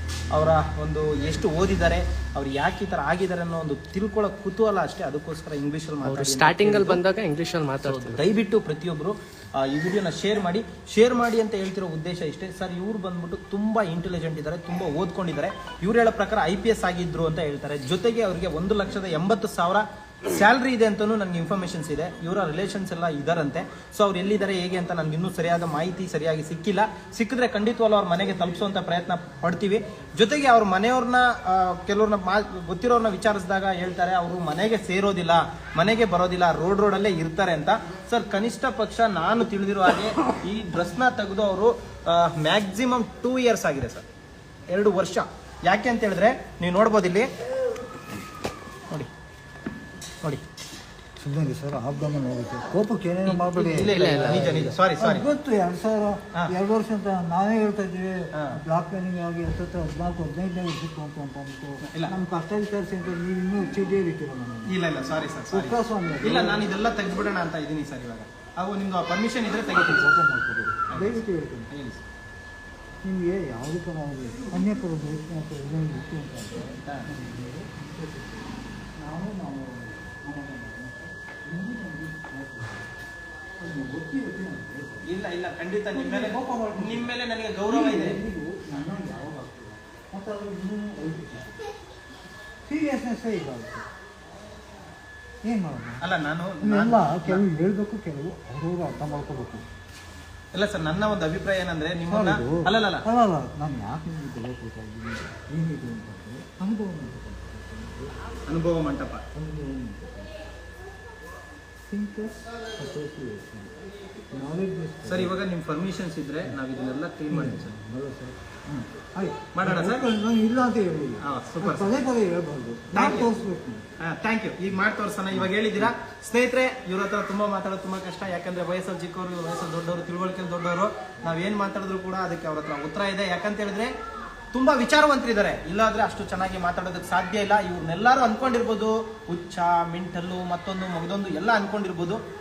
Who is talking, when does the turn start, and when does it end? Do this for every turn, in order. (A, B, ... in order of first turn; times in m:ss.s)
0:00.3-0:07.0 A
0:06.0-0:08.2 B
0:07.8-0:44.0 A
0:44.7-0:47.3 A
0:51.2-1:04.8 C
0:53.3-0:55.2 A
0:53.8-0:54.6 B
0:58.3-0:58.6 A
1:01.9-1:02.1 A
1:04.6-1:10.1 A
1:05.5-1:06.7 C
1:09.9-1:11.7 C
1:10.9-1:12.0 A
1:13.0-1:22.9 C
1:16.8-1:17.1 A
1:23.6-1:25.1 C
1:25.0-1:28.2 A
1:25.9-1:27.1 C
1:27.7-1:31.5 C
1:32.7-1:33.8 C
1:35.4-1:36.0 C
1:36.0-1:37.4 A
1:36.6-1:39.6 C
1:40.5-1:43.0 A
1:42.0-1:48.1 C
1:48.5-1:49.2 A
1:49.3-1:50.4 C
1:51.9-1:53.7 C
1:54.3-1:55.4 C
1:55.0-1:57.7 A
1:57.3-2:03.8 C
1:59.5-2:00.0 A
2:01.2-2:02.0 A
2:02.9-2:03.3 A
2:04.0-2:13.9 A
2:14.5-2:22.2 A